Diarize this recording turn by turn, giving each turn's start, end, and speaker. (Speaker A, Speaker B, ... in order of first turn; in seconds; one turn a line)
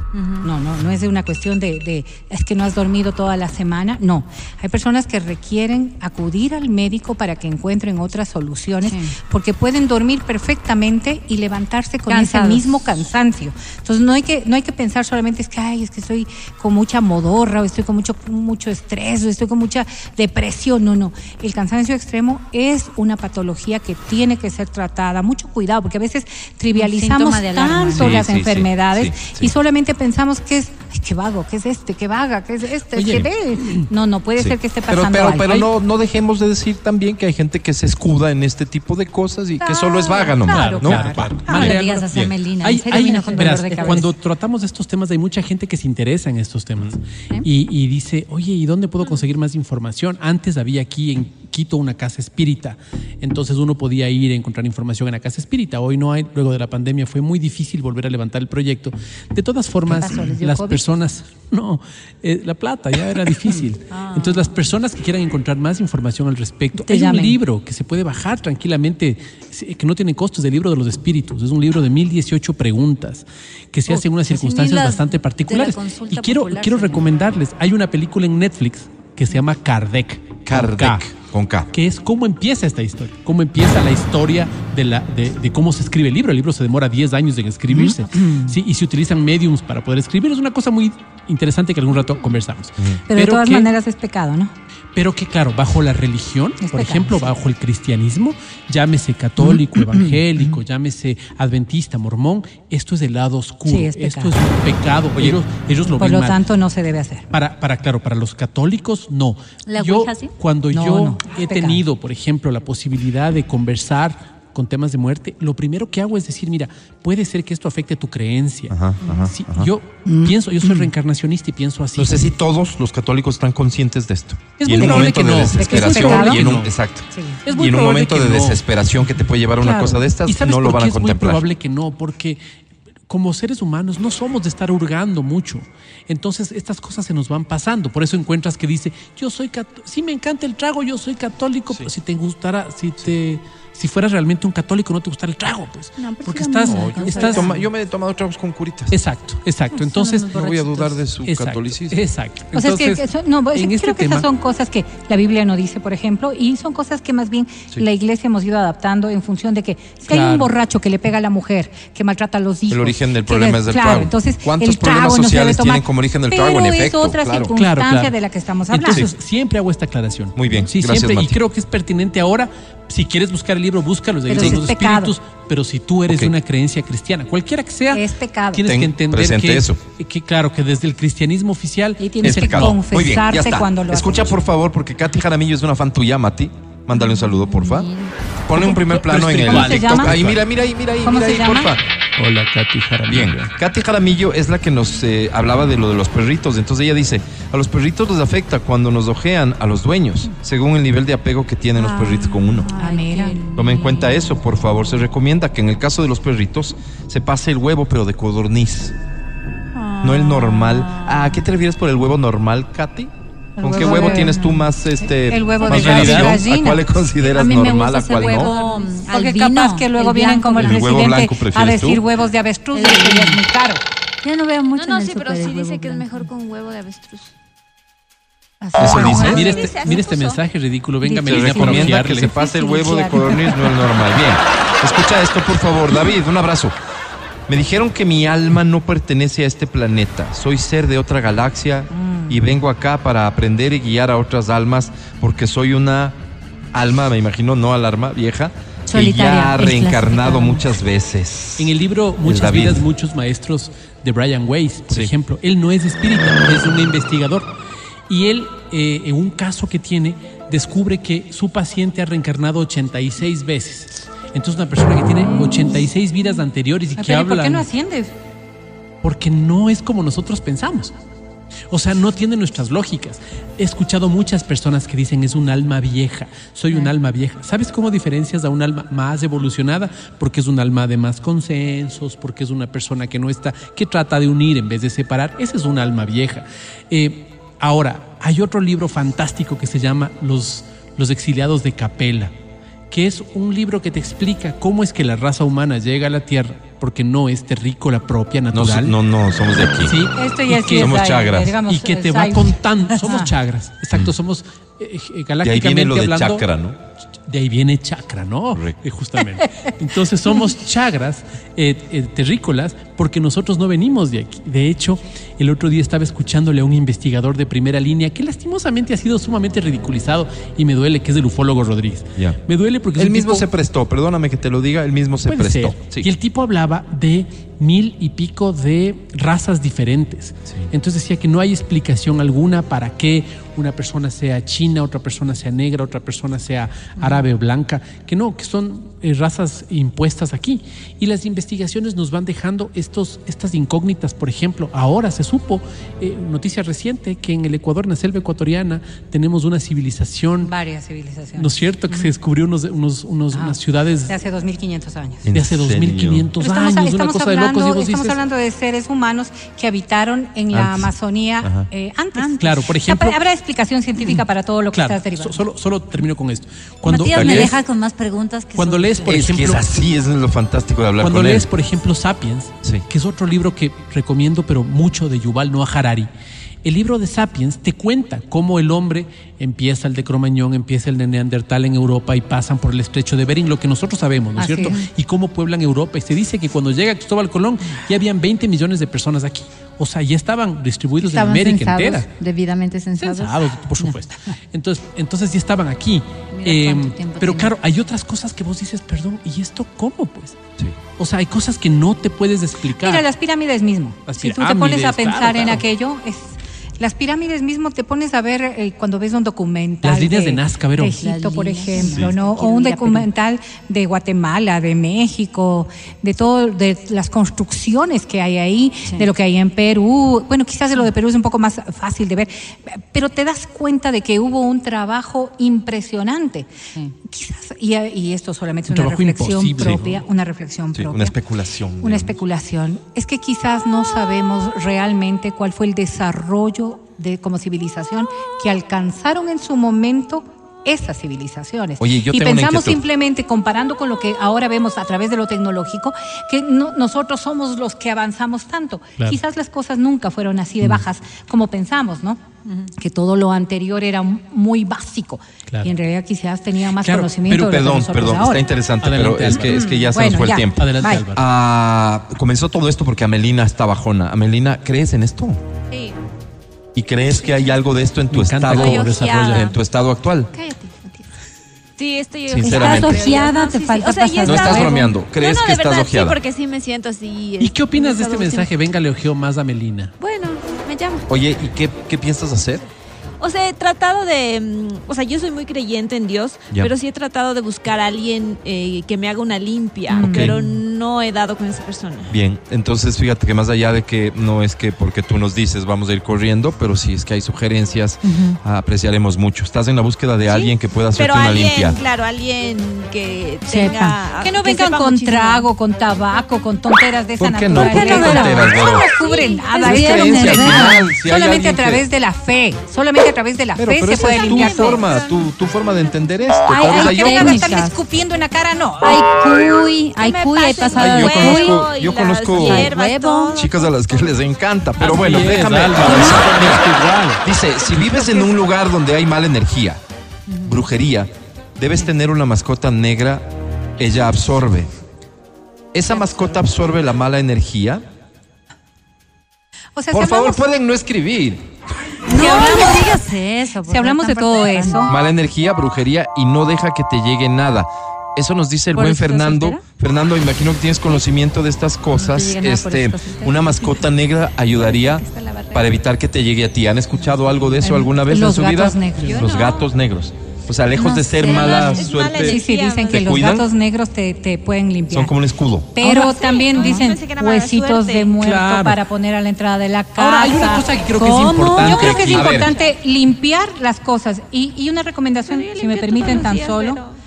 Speaker A: 0.1-0.5
Speaker B: 0.4-35.6
Speaker A: 8.8-9.2
Speaker A: 12.1-12.7
Speaker A: 26.7-28.2
Speaker C: 27.9-29.5
Speaker D: 32.9-33.9
Speaker C: 34.4-42.4
Speaker B: 39.6-41.7
Speaker D: 40.5-42.1
Speaker A: 41.5-44.1
Speaker D: 42.6-81.1
Speaker B: 43.1-44.0
Speaker B: 59.9-60.8
Speaker A: 63.9-64.5
Speaker B: 66.7-67.4
Speaker A: 74.0-77.0
Speaker C: 80.5-81.7
Speaker D: 81.7-93.7
Speaker B: 87.7-88.5
Speaker B: 93.1-94.5
Speaker D: 94.9-106.4
Speaker B: 96.6-97.3
Speaker B: 99.4-100.6
Speaker B: 103.6-104.4
Speaker C: 105.1-105.4
Speaker B: 105.8-107.2
Speaker D: 107.3-122.3
Speaker A: 109.7-110.3
Speaker B: 110.7-111.8
Speaker C: 118.7-119.7
Speaker B: 120.0-120.9
Speaker C: 122.0-131.4
Speaker D: 124.6-126.7
Speaker B: 124.7-126.4
Speaker B: 127.1-127.4
Speaker D: 127.4-128.6
Speaker B: 129.6-129.9
Speaker D: 129.7-132.4
Speaker D: 133.1-147.5
Speaker A: 146.0-147.7
Speaker C: 146.6-148.9
Speaker D: 148.9-150.6
Speaker A: 149.7-151.0
Speaker C: 150.3-152.0
Speaker D: 151.2-154.3
Speaker B: 152.5-169.1
Speaker D: 160.1-160.5
Speaker C: 162.7-167.5
Speaker D: 167.5-168.1
Speaker D: 168.7-182.7
Speaker C: 170.3-171.4
Speaker B: 174.3-175.1
Speaker C: 174.3-174.6
Speaker C: 176.1-176.3
Speaker B: 177.9-178.7
Speaker C: 178.6-179.8
Speaker B: 182.0-184.3
Speaker C: 182.2-187.9
Speaker A: 186.9-188.1
Speaker C: 188.4-191.8
Speaker D: 188.5-190.4
Speaker B: 189.4-190.1
Speaker B: 191.0-191.7
Speaker D: 192.2-193.5
Speaker C: 193.1-202.7
Speaker A: 201.8-204.4
Speaker B: 202.8-203.5
Speaker C: 203.5-208.9
Speaker A: 209.7-211.4
Speaker C: 210.0-218.5
Speaker B: 213.6-214.4
Speaker A: 213.6-214.7
Speaker B: 215.1-216.8
Speaker D: 215.7-216.4
Speaker A: 217.2-220.9
Speaker B: 218.2-223.8
Speaker C: 220.6-222.0
Speaker A: 222.7-223.4
Speaker A: 224.2-226.3
Speaker E: 224.8-227.3
Speaker B: 228.6-229.9
Speaker C: 228.8-229.5
Speaker D: 228.8-232.4
Speaker E: 228.9-230.4
Speaker B: 231.0-233.9
Speaker C: 231.2-236.8
Speaker C: 237.5-246.2
Speaker B: 241.9-242.4
Speaker C: 246.7-252.8
Speaker A: 248.9-250.7
Speaker D: 251.6-257.5
Speaker D: 258.1-267.7
Speaker B: 267.0-268.1
Speaker D: 269.0-270.9
Speaker D: 271.7-292.3
Speaker D: 292.9-298.9
Speaker C: 298.5-300.1
Speaker D: 299.8-301.0
Speaker B: 300.1-303.3
Speaker C: 300.7-301.6
Speaker D: 301.6-306.5
Speaker C: 305.4-306.8
Speaker D: 307.2-323.5
Speaker B: 309.4-309.7
Speaker C: 323.0-326.1
Speaker D: 325.3-350.5
Speaker A: 337.0-337.2
Speaker B: 350.4-352.1
Speaker D: 351.4-354.1
Speaker B: 353.3-355.3
Speaker C: 355.2-356.3
Speaker D: 355.3-358.2
Speaker B: 356.4-365.4
Speaker C: 360.5-361.7
Speaker A: 362.1-362.4
Speaker D: 362.4-363.2
Speaker D: 364.7-367.6
Speaker A: 366.8-369.3
Speaker C: 367.1-367.6
Speaker D: 368.5-369.8
Speaker C: 369.1-371.5
Speaker D: 371.0-376.1
Speaker D: 376.6-392.1
Speaker B: 384.4-384.8
Speaker A: 384.4-384.8
Speaker A: 391.0-394.0
Speaker D: 392.9-400.4
Speaker A: 396.3-397.5
Speaker D: 401.0-403.0
Speaker B: 402.8-426.5
Speaker D: 404.1-405.6
Speaker D: 409.8-411.0
Speaker A: 411.0-413.1
Speaker C: 411.8-412.1
Speaker B: 427.0-431.1
Speaker D: 428.7-430.0
Speaker C: 430.7-432.1
Speaker B: 431.8-458.4
Speaker C: 441.8-442.8
Speaker D: 456.8-457.2
Speaker C: 457.2-465.4
Speaker D: 458.8-459.6
Speaker B: 459.3-461.0
Speaker D: 460.5-461.2
Speaker E: 465.7-465.9
Speaker C: 466.7-470.3
Speaker D: 468.1-469.5
Speaker E: 468.5-469.6
Speaker E: 470.3-471.1
Speaker E: 471.8-478.5
Speaker C: 472.3-473.2
Speaker A: 472.4-474.9
Speaker C: 474.2-476.2
Speaker D: 477.4-479.9
Speaker E: 480.0-481.1
Speaker C: 481.1-482.6
Speaker E: 483.2-492.1
Speaker B: 489.9-490.4
Speaker C: 490.0-490.4
Speaker C: 492.1-501.8
Speaker A: 498.0-498.4
Speaker E: 500.3-505.5
Speaker A: 503.4-504.0
Speaker B: 504.2-514.8
Speaker C: 507.2-508.9
Speaker A: 507.5-510.9
Speaker E: 508.7-509.5
Speaker C: 509.6-511.8
Speaker C: 513.6-517.5
Speaker E: 513.9-515.2
Speaker B: 516.5-519.0
Speaker A: 516.5-517.8
Speaker A: 518.8-521.6
Speaker E: 520.0-523.9
Speaker C: 520.7-522.7
Speaker A: 522.3-523.4
Speaker C: 523.3-526.6
Speaker D: 524.8-527.2
Speaker A: 525.8-526.3
Speaker C: 527.2-529.8
Speaker A: 530.3-530.6
Speaker C: 530.4-533.3
Speaker C: 533.8-534.7
Speaker C: 535.7-537.8
Speaker A: 535.9-536.4
Speaker B: 539.8-540.4
Speaker C: 539.9-541.5
Speaker A: 542.0-544.9
Speaker B: 542.1-542.9
Speaker C: 542.2-542.7
Speaker B: 543.6-544.9
Speaker C: 544.9-563.5
Speaker A: 548.7-549.6
Speaker A: 551.9-553.8
Speaker A: 554.4-555.7
Speaker A: 556.9-557.9
Speaker B: 557.6-559.2
Speaker A: 559.0-559.6
Speaker A: 560.7-562.0
Speaker E: 561.1-563.3
Speaker B: 562.1-565.2
Speaker C: 564.9-565.8
Speaker B: 565.7-576.8
Speaker E: 565.8-568.1
Speaker D: 568.2-568.8
Speaker D: 570.0-572.2
Speaker A: 571.0-572.2
Speaker E: 571.8-572.8
Speaker C: 572.1-572.5
Speaker E: 575.2-577.0